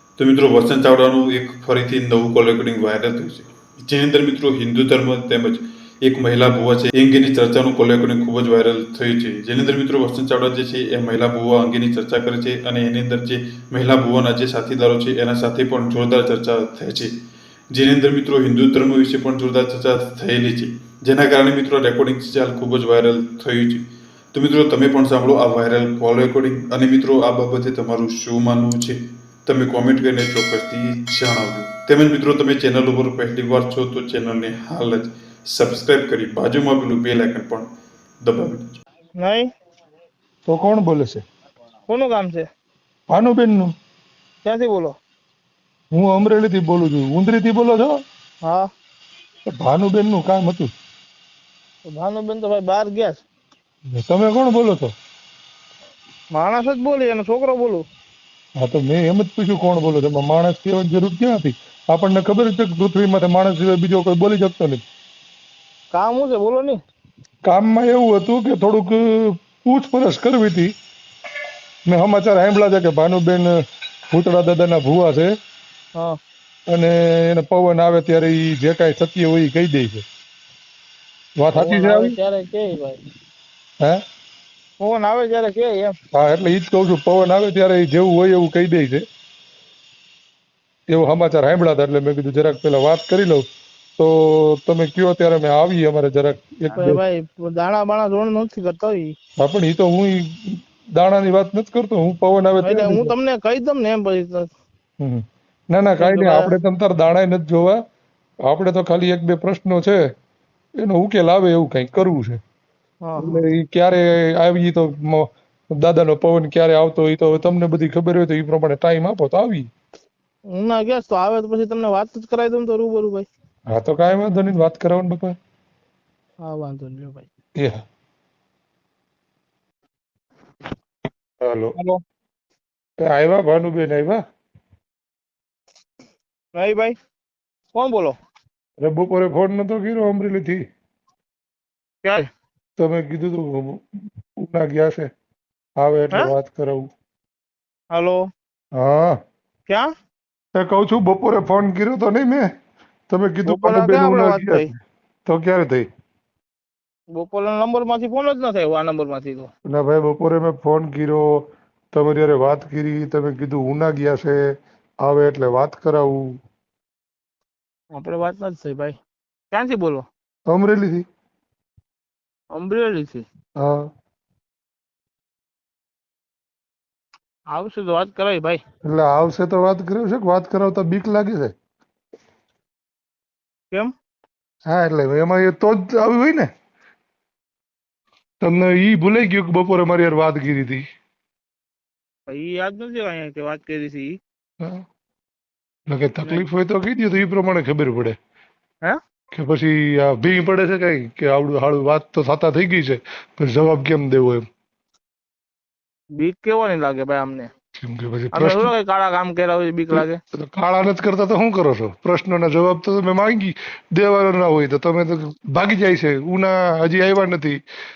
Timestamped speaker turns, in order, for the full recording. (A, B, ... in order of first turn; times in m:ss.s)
0:00.2-0:17.1 A
0:17.7-0:23.8 A
0:24.3-0:37.7 A
0:38.2-0:38.7 A
0:39.2-0:39.5 B
0:40.5-0:41.2 C
0:41.9-0:42.4 B
0:43.1-0:43.7 C
0:44.4-0:45.0 B
0:45.9-0:47.9 C
0:49.5-0:50.7 C
0:51.9-0:53.2 B
0:53.9-0:54.9 C
0:56.3-0:57.8 B
0:58.6-1:04.8 C
1:05.9-1:06.8 B
1:07.4-1:10.7 C
1:11.9-1:13.5 C
1:14.1-1:15.3 C
1:16.7-1:20.0 C
1:21.4-1:22.1 C
1:21.5-1:23.0 B
1:24.8-1:25.9 B
1:26.1-1:29.0 C
1:30.9-1:33.4 C
1:34.0-1:37.0 C
1:36.7-1:39.2 B
1:39.4-1:43.1 C
1:42.6-1:44.5 B
1:45.0-1:47.8 C
1:46.0-1:46.5 B
1:48.4-1:50.0 C
1:50.8-1:52.4 C
1:53.0-1:53.4 B
1:53.2-1:59.7 C
2:00.5-2:03.3 B
2:03.7-2:05.4 C
2:06.4-2:07.2 B
2:11.4-2:11.8 C
2:13.0-2:14.2 C
2:16.5-2:17.0 B
2:17.7-2:18.2 B
2:18.8-2:20.6 C
2:22.0-2:22.3 B
2:22.8-2:23.8 C
2:24.4-2:25.1 C
2:25.8-2:26.9 C
2:27.9-2:28.2 B
2:28.7-2:29.2 C
2:30.6-2:32.5 C
2:33.1-2:34.7 C
2:33.4-2:34.7 B
2:35.2-2:35.9 C
2:37.1-2:39.5 B
2:39.7-2:44.4 C
2:45.0-2:46.3 C
2:47.9-2:49.0 B
2:49.5-2:50.1 B
2:50.5-2:51.0 C
2:52.5-2:53.2 B
2:53.6-2:53.9 C
2:57.5-2:58.6 B
2:58.8-3:01.5 C
3:04.6-3:06.5 C
3:08.4-3:10.8 C
3:12.3-3:14.2 B
3:15.9-3:18.2 C
3:19.3-3:24.4 C
3:26.2-3:27.5 B
3:27.8-3:28.7 C
3:28.3-3:30.2 B
3:29.9-3:37.6 C